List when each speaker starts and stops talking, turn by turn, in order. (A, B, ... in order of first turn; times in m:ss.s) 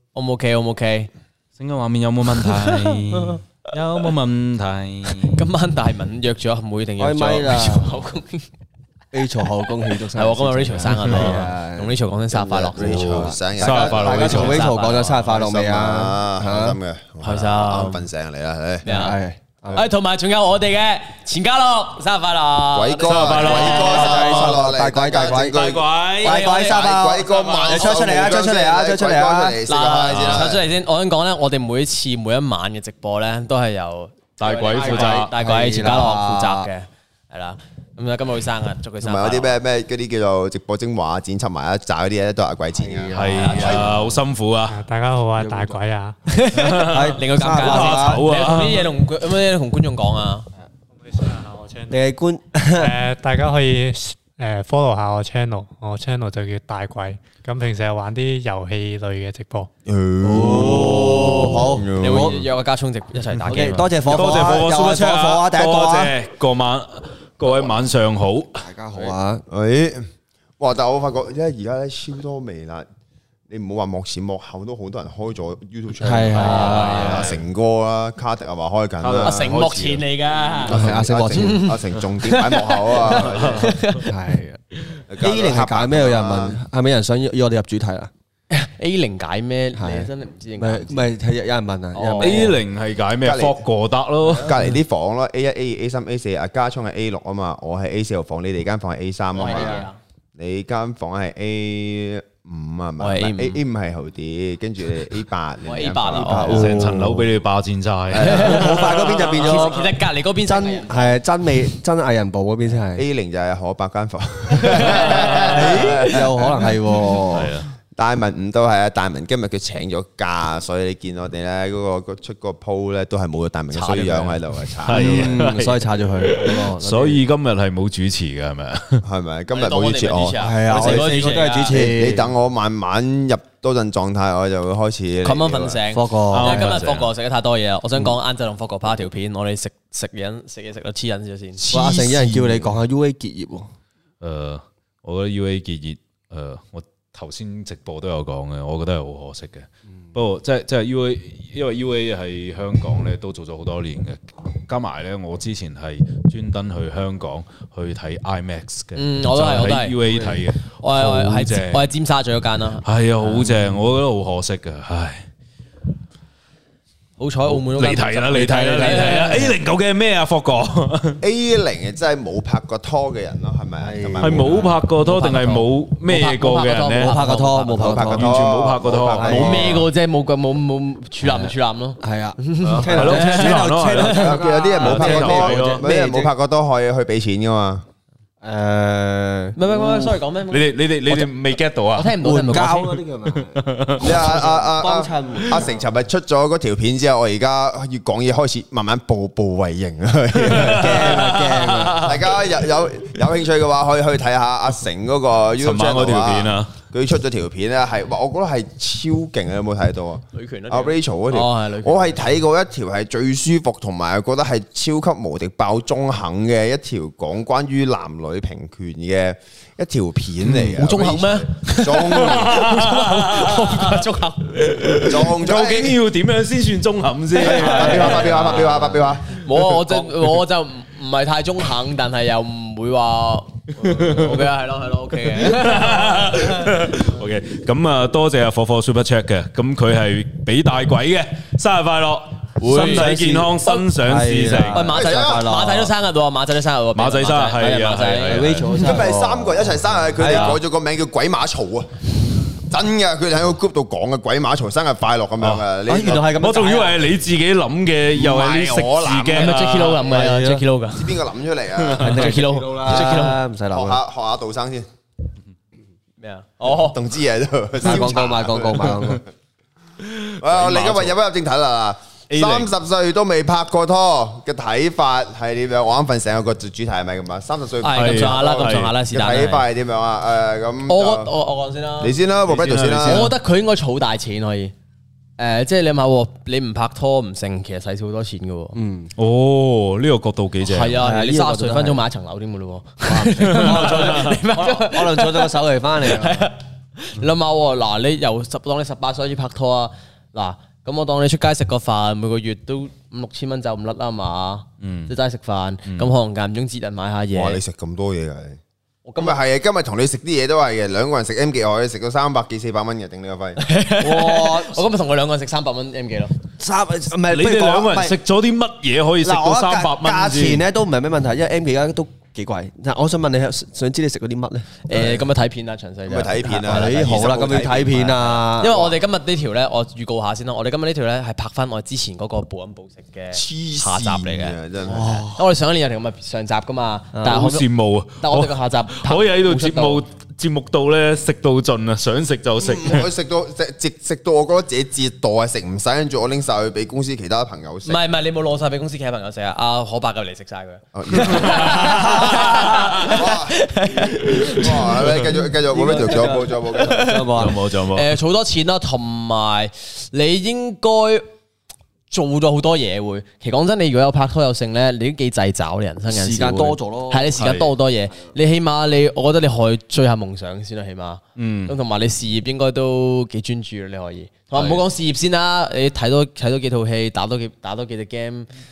0:00.2-0:01.1 A
0:01.6-0:05.4 B
0:02.5-0:03.4 A
0:05.2-0:08.5 A
0:07.0-0:08.0 C
0:09.1-0:12.0 C
0:10.2-0:13.0 A
0:11.1-0:11.4 B
0:12.3-0:14.4 D
0:12.8-0:16.8 C
0:12.8-0:14.7 B
0:14.2-0:15.2 A
0:15.3-0:18.9 D
0:17.2-0:18.0 A
0:18.8-0:19.2 A
0:18.9-0:19.9 C
0:19.7-0:24.4 A
0:22.7-0:30.6 D
0:23.0-0:24.5 B
0:23.5-0:25.6 C
0:25.5-0:26.5 B
0:26.2-0:29.6 C
0:26.3-0:26.7 A
0:29.7-0:39.6 A
0:30.1-0:30.5 B
0:34.4-0:35.3 B
0:34.7-0:36.7 C
0:39.0-0:43.7 D
0:42.8-0:44.1 C
0:43.1-0:44.8 B
0:43.4-0:44.0 A
0:44.7-0:46.2 E
0:45.4-0:45.8 C
0:46.3-0:50.5 A
0:46.6-0:48.9 B
0:46.7-0:48.2 C
0:50.9-0:52.1 E
0:51.9-0:53.0 C
0:52.7-0:59.7 E
0:59.9-1:02.4 D
1:00.2-1:02.4 C
1:01.0-1:04.3 A
1:03.5-1:06.1 C
1:04.0-1:08.6 B
1:08.6-1:09.4 C
1:09.5-1:10.1 D
1:10.6-1:12.9 D
1:13.5-1:19.6 D
1:16.0-1:17.3 C
1:16.4-1:17.2 A
1:16.5-1:17.4 B
1:19.0-1:20.0 B
1:19.2-1:20.8 A
1:20.7-1:21.8 C
1:20.7-1:23.7 D
1:21.3-1:24.1 A
1:24.1-1:24.6 C
1:25.1-1:26.6 D
1:25.2-1:28.1 C
1:28.5-1:31.0 A
1:29.8-1:32.6 C
1:31.9-1:32.5 A
1:32.2-1:34.5 B
1:33.2-1:33.6 D
1:34.3-1:46.8 D
1:39.4-1:40.0 A
1:39.4-1:39.8 C
1:43.0-1:43.6 A
1:45.6-1:46.8 A
1:46.2-1:47.3 C
1:46.5-1:49.5 B
1:48.1-1:48.4 D
1:48.2-1:53.0 C
1:48.2-1:48.8 A
1:49.4-1:51.2 A
1:53.0-1:56.4 D
1:54.7-1:57.5 C
1:54.8-1:55.5 A
1:57.3-1:57.7 B
1:58.0-2:05.4 D
2:03.7-2:04.4 A
2:04.8-2:09.0 B
2:04.9-2:07.2 C
2:09.0-2:15.8 D
2:09.5-2:11.8 A
2:10.4-2:12.3 C
2:15.2-2:21.6 A
2:15.9-2:16.8 C
2:16.3-2:17.1 B
2:21.6-2:22.6 D
2:21.7-2:23.7 C
2:24.2-2:41.8 B
2:39.0-2:40.0 A
2:40.1-2:40.4 C
2:40.6-2:43.6 A
2:42.8-2:45.2 B
2:47.2-2:49.6 A
2:47.5-2:51.2 B
2:51.2-2:54.8 D
2:53.8-2:54.7 C
2:54.2-2:57.1 B
2:55.0-2:58.1 A
2:57.0-2:58.5 C
2:57.8-2:59.8 D
2:58.2-2:59.7 B
2:59.1-2:59.8 C
2:59.3-3:04.1 A
3:02.0-3:06.3 C
3:02.7-3:05.8 B
3:04.0-3:07.8 D
3:08.4-3:10.0 C
3:09.6-3:13.0 A
3:10.5-3:12.2 B
3:12.2-3:15.8 C
3:13.3-3:14.4 B
3:14.0-3:21.2 D
3:20.4-3:22.3 B
3:20.5-3:22.1 C
3:22.0-3:42.7 D
3:25.6-3:26.8 B
3:30.3-3:32.3 A
3:40.6-3:44.6 A
3:42.1-3:44.0 B
3:44.5-3:48.7 B
3:45.0-3:46.0 D
3:47.4-3:49.4 D
3:47.4-3:56.6 A
3:53.8-3:54.5 B
3:55.4-4:04.9 B
4:02.6-4:03.1 A
4:02.6-4:05.9 C
4:04.7-4:08.5 A
4:04.9-4:05.5 D
4:07.0-4:08.8 B
4:07.7-4:10.6 C
4:08.8-4:12.0 D
4:12.7-4:16.4 D
4:15.4-4:15.6 B
4:15.9-4:17.1 C
4:16.4-4:20.1 B
4:18.1-4:19.6 D
4:19.4-4:21.2 A
4:20.0-4:20.6 C
4:20.9-4:22.4 D
4:21.8-4:22.1 B
4:22.0-4:24.0 C
4:22.2-4:23.4 A
4:22.9-4:23.2 D
4:23.7-4:24.9 D
4:26.2-4:27.0 A
4:26.7-4:29.2 D
4:27.8-4:29.2 C
4:30.1-4:31.2 B
4:30.4-4:41.3 D
4:32.3-4:32.7 B
4:37.8-4:39.7 A
4:37.9-4:38.9 B
4:40.9-4:42.2 A
4:42.0-4:43.4 D
4:42.5-4:43.3 B
4:43.0-4:44.7 A
4:45.4-4:48.8 A
4:48.8-4:49.1 C
4:49.2-4:51.0 B
4:50.6-5:07.6 A
4:50.9-4:52.0 C
4:53.0-4:56.5 C
4:53.5-4:54.1 B
5:04.8-5:05.1 B
5:07.3-5:08.6 D
5:09.1-5:09.4 A
5:09.2-5:13.6 D
5:13.6-5:16.4 A
5:14.0-5:14.9 C
5:16.6-5:18.2 C
5:17.3-5:20.6 B
5:19.2-5:25.3 C
5:24.9-5:27.1 A
5:26.1-5:28.5 D
5:26.7-5:29.0 C
5:28.6-5:34.6 A
5:33.3-5:35.3 D
5:34.8-5:35.4 C
5:35.3-5:37.7 A
5:37.2-5:37.4 C
5:37.3-5:43.1 B
5:38.2-5:40.0 A
5:42.6-5:48.0 D
5:47.9-5:55.0 A
5:50.9-5:52.1 D
5:51.3-5:53.1 B
5:53.0-5:53.6 D
5:54.3-5:57.2 D
5:55.6-5:57.6 C
5:56.8-6:01.3 A
5:57.4-5:58.1 B
6:02.1-6:18.5 A
6:06.1-6:07.4 C
6:07.4-6:07.7 B
6:11.4-6:11.8 B
6:14.5-6:14.8 B